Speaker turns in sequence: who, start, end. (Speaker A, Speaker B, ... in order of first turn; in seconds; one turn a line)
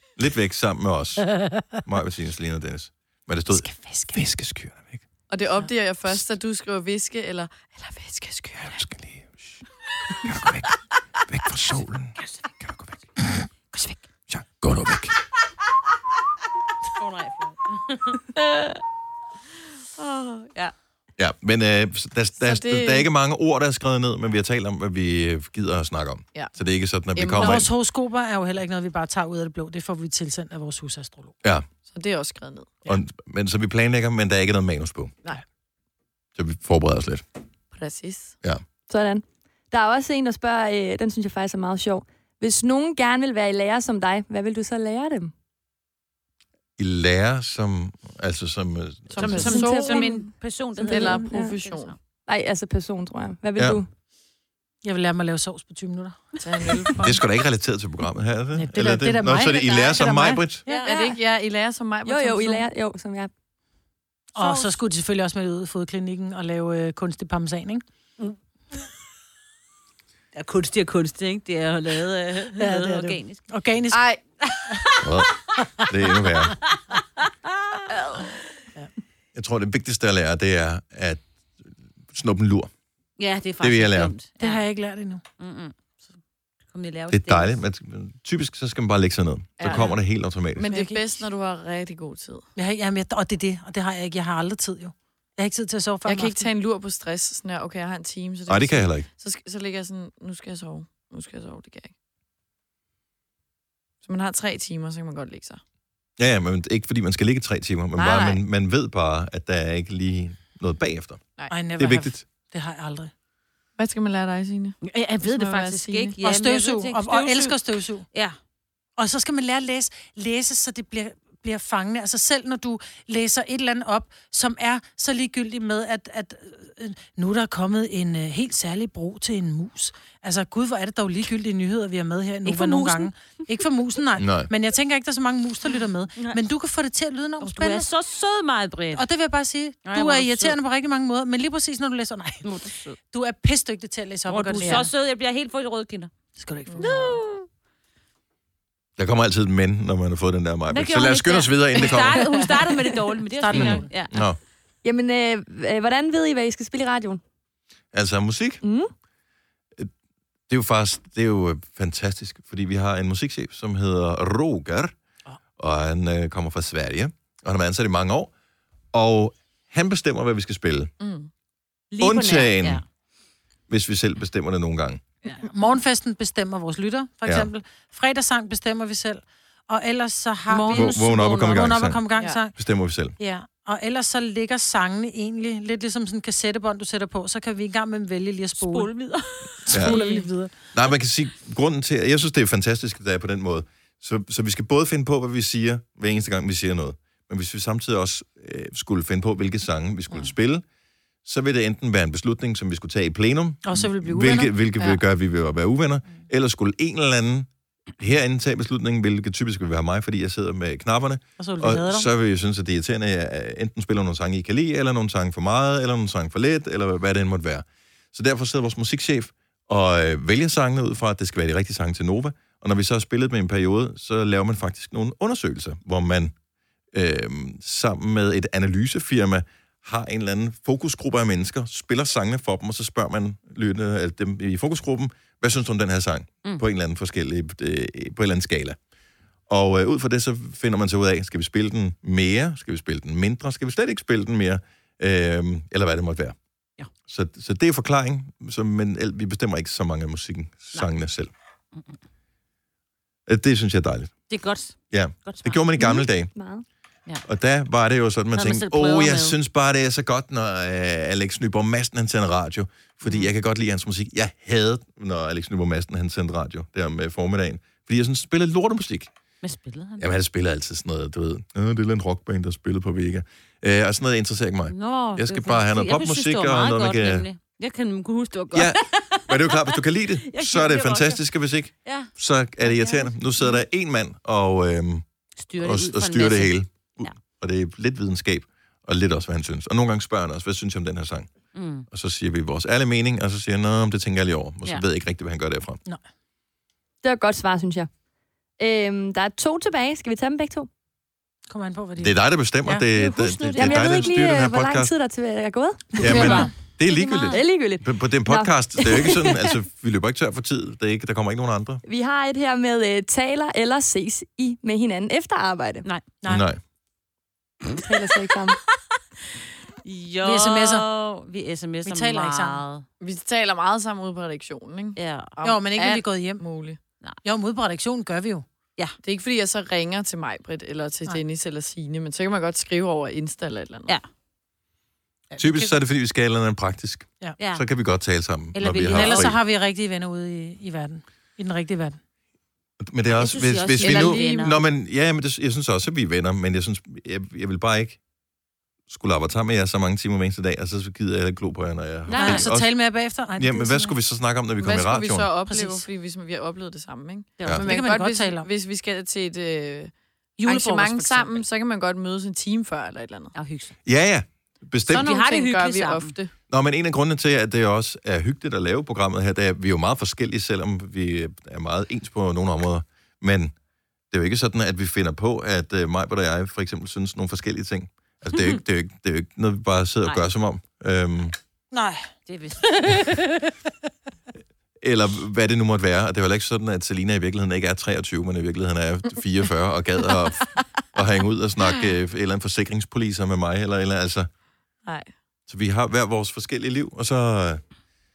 Speaker A: 0.1-1.3
Speaker B: 1.4-1.8
Speaker A: 1.8-5.0
Speaker B: 3.5-4.2
Speaker C: 5.3-8.8
Speaker A: 8.6-9.6
Speaker A: 10.2-10.7
Speaker A: 11.3-12.9
Speaker D: 12.2-12.5
Speaker D: 13.7-14.0
Speaker A: 14.3-15.2
Speaker D: 17.0-18.2
Speaker C: 20.0-20.7
Speaker A: 21.2-27.7
Speaker C: 22.4-23.1
Speaker C: 27.1-27.7
Speaker B: 27.4-31.3
Speaker C: 31.9-32.9
Speaker A: 32.8-35.1
Speaker A: 36.4-37.2
Speaker C: 37.7-38.4
Speaker E: 38.9-45.3
Speaker A: 46.8-49.4
Speaker C: 49.1-52.0
Speaker D: 49.2-51.9
Speaker E: 49.3-50.2
Speaker E: 50.9-51.5
Speaker E: 52.2-53.9
Speaker B: 54.8-56.9
Speaker C: 56.4-57.2
Speaker A: 57.0-60.6
Speaker B: 58.5-60.8
Speaker D: 60.6-61.1
Speaker C: 60.8-62.6
Speaker E: 62.0-63.3
Speaker B: 64.3-67.8
Speaker D: 64.4-64.7
Speaker D: 70.3-73.4
Speaker B: 72.6-74.0
Speaker C: 73.9-74.2
Speaker D: 74.5-75.0
Speaker A: 75.0-76.6
Speaker D: 77.2-77.8
Speaker C: 77.9-78.3
Speaker A: 79.3-82.7
Speaker D: 83.2-84.6
Speaker A: 83.6-84.1
Speaker B: 84.4-85.2
Speaker D: 85.4-86.0
Speaker D: 86.7-87.5
Speaker A: 87.1-90.7
Speaker C: 89.6-90.0
Speaker C: 90.6-92.5
Speaker B: 90.6-91.1
Speaker B: 92.5-96.5
Speaker C: 96.0-101.9
Speaker A: 98.5-99.0
Speaker C: 104.0-105.6
Speaker A: 106.2-112.2
Speaker C: 107.9-108.4
Speaker B: 111.5-113.1
Speaker C: 113.8-116.2
Speaker D: 114.8-118.3
Speaker B: 116.2-118.0
Speaker B: 119.0-137.9
Speaker D: 132.4-133.1
Speaker A: 134.2-134.5
Speaker D: 135.7-136.4
Speaker D: 137.4-139.1
Speaker B: 138.9-142.5
Speaker D: 139.8-140.6
Speaker D: 142.4-143.0
Speaker B: 143.1-144.8
Speaker D: 144.3-146.1
Speaker C: 144.6-144.9
Speaker B: 146.4-147.0
Speaker C: 146.7-147.1
Speaker D: 146.8-147.5
Speaker A: 149.0-152.3
Speaker D: 150.7-154.1
Speaker C: 151.8-152.8
Speaker B: 153.4-153.9
Speaker A: 153.5-154.4
Speaker E: 154.8-157.2
Speaker A: 157.9-158.6
Speaker E: 158.6-158.9
Speaker A: 160.5-164.9
Speaker A: 165.6-168.3
Speaker A: 168.9-170.9
Speaker C: 171.0-171.3
Speaker D: 171.9-172.8
Speaker A: 172.0-172.8
Speaker A: 173.7-175.0
Speaker B: 175.3-182.6
Speaker D: 180.5-181.9
Speaker A: 180.7-182.0
Speaker C: 182.1-182.4
Speaker A: 182.6-183.1
Speaker B: 183.2-188.9
Speaker D: 188.6-189.7
Speaker B: 189.6-190.5
Speaker A: 189.7-190.0
Speaker C: 189.8-190.3
Speaker A: 190.7-200.6
Speaker A: 201.2-207.5
Speaker B: 203.6-204.5
Speaker A: 208.0-226.3
Speaker B: 211.4-212.1
Speaker A: 226.9-238.8
Speaker A: 239.5-246.3
Speaker A: 247.1-251.3
Speaker A: 253.3-254.1
Speaker D: 254.3-255.6
Speaker A: 254.9-256.3
Speaker E: 255.8-256.6
Speaker A: 257.2-269.1
Speaker D: 258.3-259.4
Speaker D: 263.0-263.3
Speaker D: 269.4-270.1
Speaker A: 270.0-277.3
Speaker D: 274.7-281.2
Speaker A: 278.5-285.0
Speaker D: 281.8-282.1
Speaker D: 282.6-283.6
Speaker D: 285.4-287.1
Speaker A: 285.6-291.3
Speaker D: 291.5-291.9
Speaker A: 291.9-295.8
Speaker E: 297.0-297.9
Speaker E: 298.6-300.7
Speaker B: 301.5-302.1
Speaker A: 302.0-304.9
Speaker D: 302.7-304.1
Speaker E: 303.6-306.2
Speaker A: 306.0-311.8
Speaker B: 306.0-306.5
Speaker D: 306.9-307.4
Speaker E: 307.3-309.5
Speaker E: 311.9-315.9
Speaker A: 316.3-316.6
Speaker E: 317.8-318.6
Speaker D: 319.8-322.8
Speaker B: 320.2-320.8
Speaker B: 321.8-322.6
Speaker C: 323.0-326.8
Speaker D: 324.9-325.3
Speaker B: 325.4-326.4
Speaker B: 327.2-328.4
Speaker C: 329.0-333.9
Speaker B: 335.3-335.8
Speaker A: 335.4-339.4
Speaker D: 338.5-339.3
Speaker B: 338.9-342.0
Speaker A: 342.8-348.0
Speaker D: 343.1-344.6
Speaker C: 343.8-344.6
Speaker A: 348.9-352.8
Speaker D: 352.1-352.5
Speaker B: 352.1-353.9
Speaker A: 353.4-355.3
Speaker C: 354.6-359.9
Speaker B: 355.4-355.8
Speaker B: 357.6-358.5
Speaker B: 360.4-361.3
Speaker C: 360.4-363.3
Speaker D: 363.3-363.7
Speaker A: 363.9-365.1
Speaker C: 364.9-366.3
Speaker D: 364.9-366.1
Speaker A: 366.5-373.5
Speaker A: 374.1-381.4
Speaker B: 381.7-382.0
Speaker D: 382.3-383.1
Speaker B: 382.6-383.5
Speaker A: 384.8-394.3
Speaker C: 394.8-395.1
Speaker A: 395.5-397.6